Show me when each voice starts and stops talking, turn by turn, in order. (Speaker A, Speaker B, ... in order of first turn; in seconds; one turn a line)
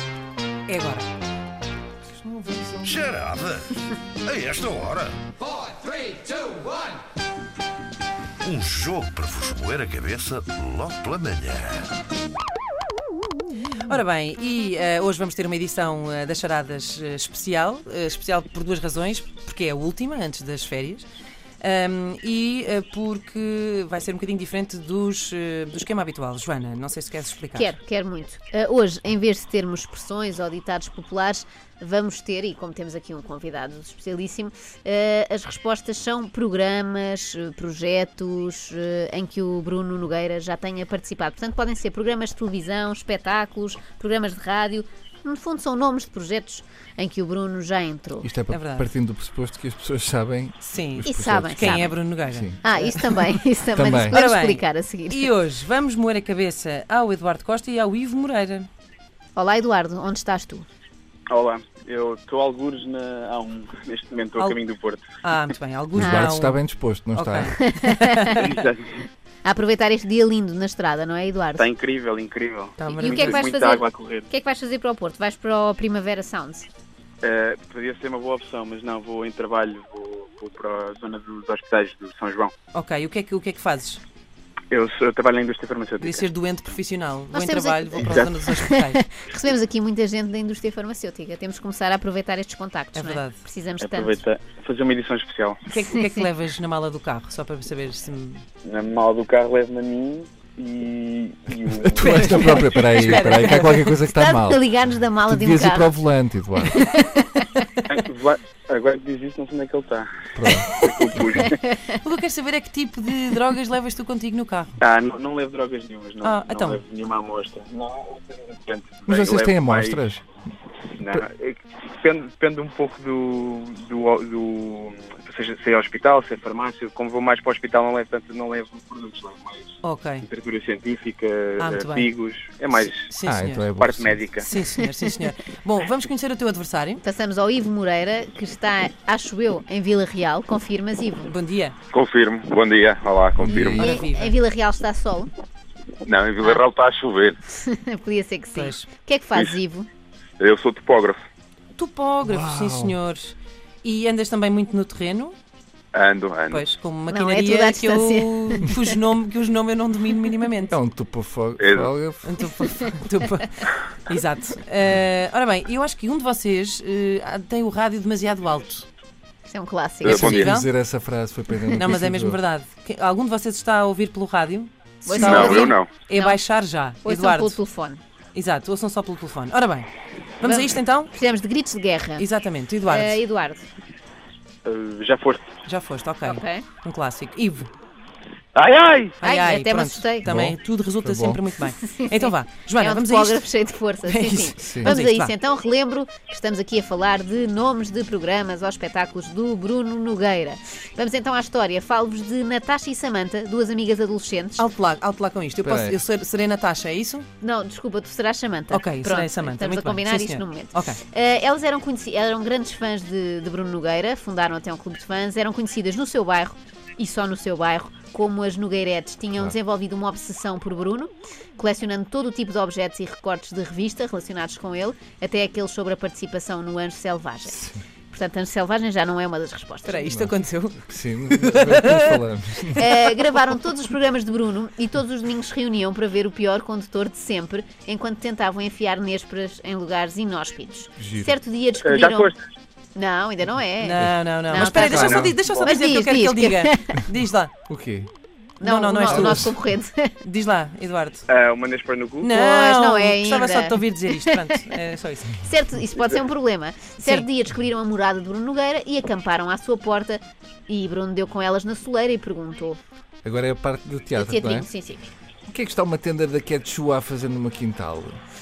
Speaker A: 0.7-1.1
Speaker A: 2.1-3.0
Speaker B: 2.8-3.7
Speaker B: 4.2-5.2
Speaker B: 8.4-11.9
Speaker A: 13.8-21.1
Speaker A: 21.6-27.8
Speaker C: 27.5-48.3
Speaker D: 48.2-52.6
Speaker A: 48.5-48.9
Speaker A: 50.6-53.0
Speaker C: 51.0-52.0
Speaker C: 52.6-55.3
Speaker D: 53.7-54.2
Speaker A: 54.1-58.7
Speaker C: 59.4-60.6
Speaker E: 61.3-65.0
Speaker A: 65.2-66.6
Speaker D: 65.9-67.6
Speaker C: 66.0-66.4
Speaker A: 67.1-68.6
Speaker C: 67.4-68.5
Speaker E: 68.4-69.0
Speaker C: 69.4-71.7
Speaker E: 71.6-74.3
Speaker A: 72.8-73.4
Speaker C: 72.9-76.7
Speaker E: 77.2-82.5
Speaker A: 82.7-84.0
Speaker E: 84.7-86.2
Speaker A: 86.0-89.2
Speaker C: 87.3-94.2
Speaker A: 92.9-93.4
Speaker E: 93.8-95.6
Speaker A: 95.7-98.4
Speaker E: 98.6-102.2
Speaker D: 101.9-106.8
Speaker A: 101.9-104.0
Speaker C: 104.1-105.9
Speaker C: 106.7-107.6
Speaker E: 107.9-111.6
Speaker D: 110.3-110.7
Speaker A: 110.5-111.4
Speaker C: 111.4-111.8
Speaker A: 111.9-114.8
Speaker E: 114.8-120.0
Speaker A: 116.2-116.8
Speaker D: 119.1-120.2
Speaker E: 121.0-133.0
Speaker A: 129.8-130.2
Speaker A: 131.6-132.1
Speaker A: 132.7-133.7
Speaker D: 133.2-134.3
Speaker E: 133.8-134.5
Speaker A: 134.4-137.0
Speaker C: 137.0-141.3
Speaker A: 141.2-141.8
Speaker F: 141.9-143.9
Speaker D: 143.4-143.9
Speaker C: 143.5-145.3
Speaker A: 143.8-144.4
Speaker F: 146.0-147.4
Speaker C: 147.5-149.9
Speaker A: 148.6-148.9
Speaker F: 150.4-151.2
Speaker A: 151.8-155.3
Speaker D: 152.2-153.0
Speaker F: 155.9-156.7
Speaker A: 156.5-160.8
Speaker C: 157.1-158.8
Speaker D: 160.7-162.3
Speaker F: 161.6-161.9
Speaker A: 162.2-168.9
Speaker C: 169.5-170.3
Speaker D: 170.0-172.4
Speaker F: 170.0-170.5
Speaker A: 170.1-170.7
Speaker A: 171.8-177.6
Speaker C: 175.0-176.4
Speaker F: 175.1-176.1
Speaker C: 177.0-178.0
Speaker A: 178.3-179.9
Speaker A: 180.4-181.1
Speaker C: 180.4-182.2
Speaker A: 182.2-183.2
Speaker C: 182.9-183.7
Speaker E: 184.7-185.5
Speaker A: 185.7-187.7
Speaker C: 186.2-186.7
Speaker F: 188.6-189.2
Speaker A: 189.2-193.5
Speaker C: 189.2-190.3
Speaker D: 190.2-191.4
Speaker C: 191.7-204.7
Speaker A: 194.0-195.3
Speaker D: 194.6-195.0
Speaker A: 204.6-207.3
Speaker D: 205.6-206.0
Speaker C: 207.4-230.1
Speaker A: 208.7-211.0
Speaker D: 227.5-227.8
Speaker A: 229.8-232.2
Speaker D: 230.1-230.3
Speaker D: 230.8-232.9
Speaker C: 232.8-242.3
Speaker A: 232.9-233.5
Speaker D: 241.0-241.3
Speaker E: 241.8-242.4
Speaker C: 243.0-247.0
Speaker A: 243.8-247.5
Speaker D: 244.0-245.3
Speaker E: 245.0-245.7
Speaker D: 247.7-248.1
Speaker A: 248.6-249.6
Speaker C: 248.6-250.1
Speaker D: 249.1-249.5
Speaker A: 250.2-251.2
Speaker E: 251.3-252.4
Speaker A: 252.2-255.4
Speaker C: 252.4-254.2
Speaker C: 255.3-262.8
Speaker A: 257.0-257.3
Speaker D: 263.2-264.7
Speaker C: 264.1-265.1
Speaker D: 265.5-268.2